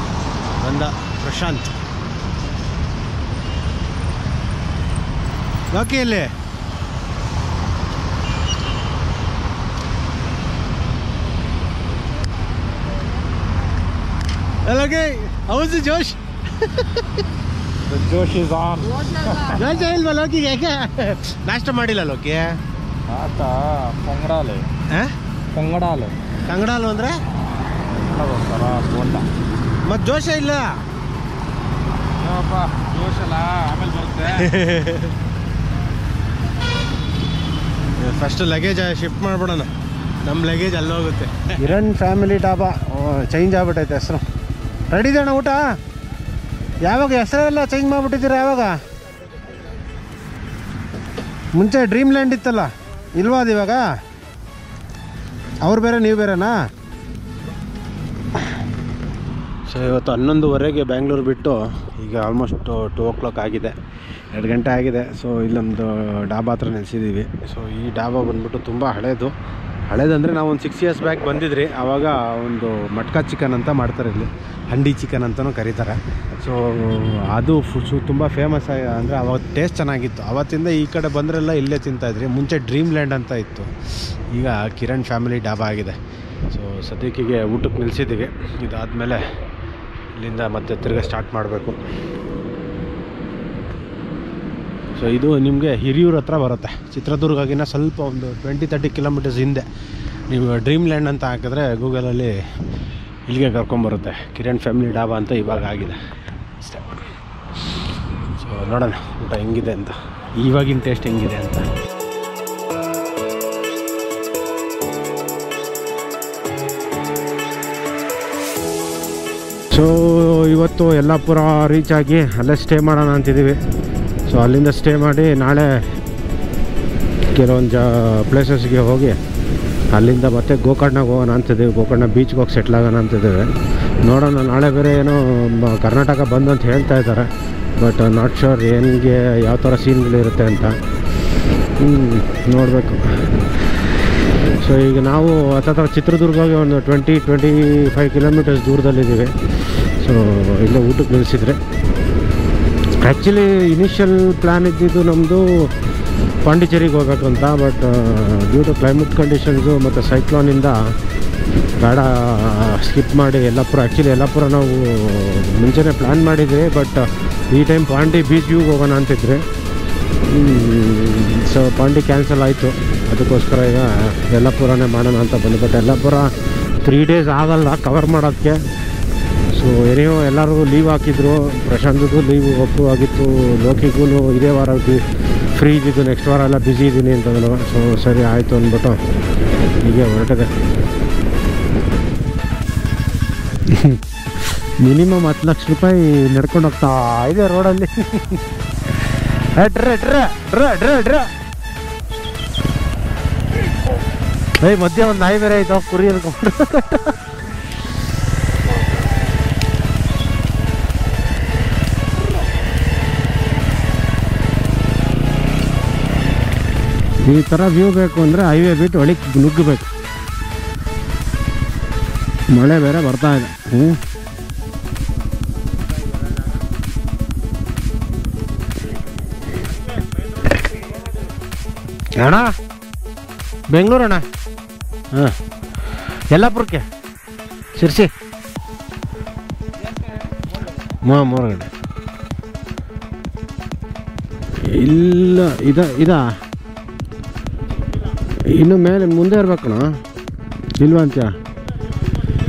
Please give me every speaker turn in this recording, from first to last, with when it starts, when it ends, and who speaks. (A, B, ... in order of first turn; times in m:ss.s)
0:00.6-0:01.7 A
0:05.7-0:06.3 A
0:14.6-0:17.0 A
0:17.8-0:19.6 B
0:19.4-0:22.6 A
0:23.1-0:24.7 B
0:24.9-0:25.1 A
0:25.5-0:26.2 B
0:26.5-0:27.2 A
0:28.0-0:29.3 B
0:29.8-0:30.8 A
0:32.2-0:34.6 B
0:34.4-0:35.1 A
0:38.0-0:39.7 A
0:40.2-0:44.2 A
0:44.9-0:45.6 A
0:46.8-0:48.8 A
0:51.5-0:53.8 A
0:55.6-0:56.6 A
0:59.7-1:03.8 A
1:04.3-1:09.3 A
1:09.9-1:23.7 A
1:24.3-1:26.0 A
1:26.5-1:29.2 A
1:30.2-1:31.8 A
1:35.0-1:39.7 A
1:40.3-1:42.4 A
1:43.3-1:46.0 A
1:48.4-1:51.7 A
1:59.7-2:03.6 A
2:04.3-2:05.9 A
2:07.3-2:09.2 A
2:09.9-2:13.5 A
2:14.0-2:20.8 A
2:21.8-2:23.1 A
2:24.6-2:29.3 A
2:30.0-2:31.6 A
2:33.0-2:35.7 A
2:36.4-2:40.8 A
2:41.8-2:49.4 A
2:50.3-2:58.6 A
2:59.5-3:05.0 A
3:05.5-3:09.0 A
3:09.8-3:10.5 A
3:13.6-3:18.4 A
3:19.2-3:21.3 A
3:24.6-3:27.2 A
3:37.2-3:39.9 A
3:42.5-3:44.0 A
3:52.2-3:52.5 A
3:53.7-3:54.2 A
3:56.3-3:56.8 A
3:57.8-3:58.1 A
4:00.9-4:01.7 A
4:04.6-4:06.2 A
4:08.5-4:10.0 A
4:10.8-4:11.4 A